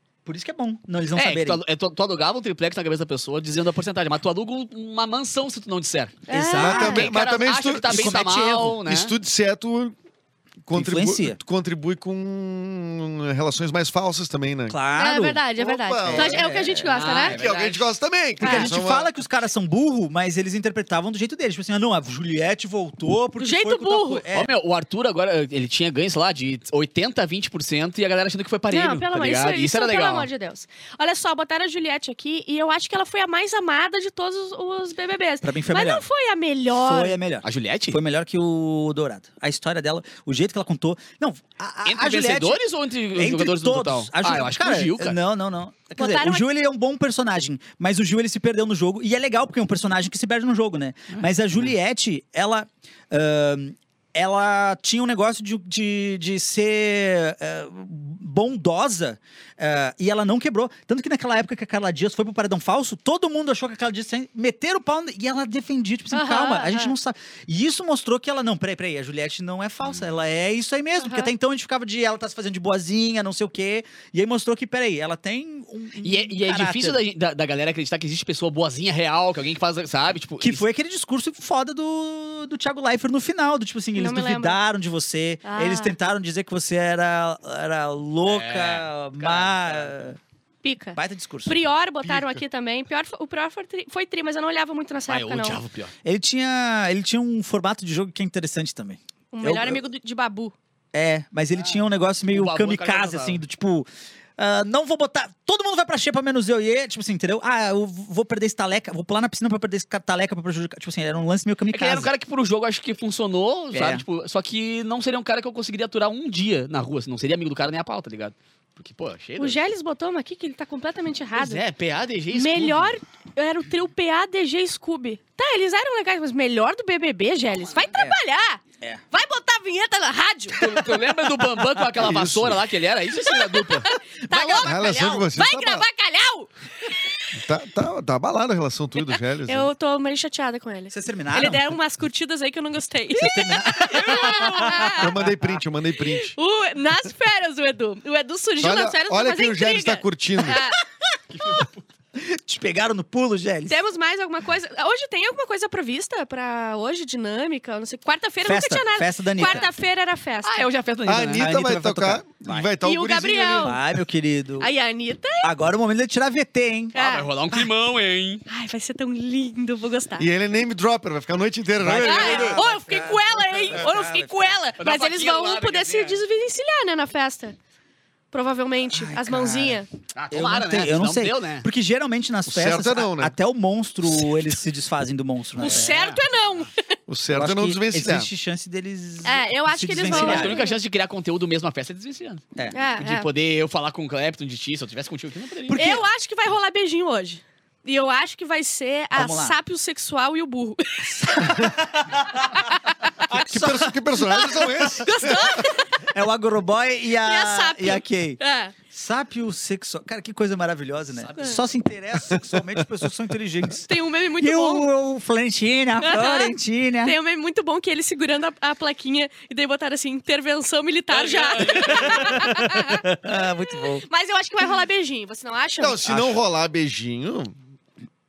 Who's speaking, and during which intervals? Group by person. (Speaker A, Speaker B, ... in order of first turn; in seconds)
Speaker A: 0.2-1.6, 6.3-7.1, 7.9-8.8, 10.7-11.4, 14.7-15.4, 16.0-16.9, 18.4-24.5, 35.4-36.0, 36.7-42.6, 43.1-77.0, 80.4-90.2, 90.9-91.5, 96.0-99.8, 100.9-112.1, 113.7-114.0, 134.2-135.3, 140.9-141.7, 143.1-145.3, 152.2-153.8, 158.4-159.7, 161.4-162.8, 163.6-164.7, 165.4-166.9, 171.8-174.6, 178.9-185.9, 187.3-190.6, 195.7-196.0, 199.1-199.6, 201.5-202.5, 203.3-204.7, 206.1-208.4, 208.9-213.9, 214.4-217.1, 221.9-224.0, 226.0-226.4
Speaker B: 1.1-9.1, 16.9-17.9, 24.3-30.3, 37.4-38.0, 41.8-45.2, 51.1-51.7, 76.0-80.6, 88.2-89.9, 95.1-95.9, 102.3-103.4, 111.7-119.6, 121.3-122.9, 130.5-133.8, 151.3-151.7, 160.4-161.5, 166.9-168.4, 174.8-176.2, 180.1-181.7, 185.6-186.2, 190.1-192.4, 193.0-195.8, 221.1-222.3
Speaker C: 6.3-7.1, 14.9-17.4, 18.4-18.7, 23.4-24.2, 28.7-37.2, 46.0-46.5, 66.1-66.9, 71.0-71.3, 83.9-84.6, 85.4-85.9, 90.6-95.6, 99.3-100.5, 119.4-121.6, 122.3-128.6, 129.1-130.6, 133.5-137.3, 139.5-145.1, 146.2-150.8, 153.7-160.7, 162.8-163.8, 164.6-165.5, 166.9-167.3, 168.5-170.3, 172.0-177.6, 178.3-179.9, 185.6-186.7, 189.2-190.8, 192.7-193.3, 195.7-201.5, 205.0-206.0, 207.2-208.7, 211.3-211.6, 213.8-214.9, 216.0-223.2, 224.0-226.0
Speaker D: 6.5-9.9, 10.7-14.8, 15.6-16.7, 17.2-19.1, 92.0-92.4, 131.9-132.6, 134.5-135.8, 137.3-139.7, 144.9-146.3, 148.6-150.6, 161.1-163.8, 170.2-172.6, 182.4-183.3, 187.1-188.3, 203.5-205.4, 225.8-227.5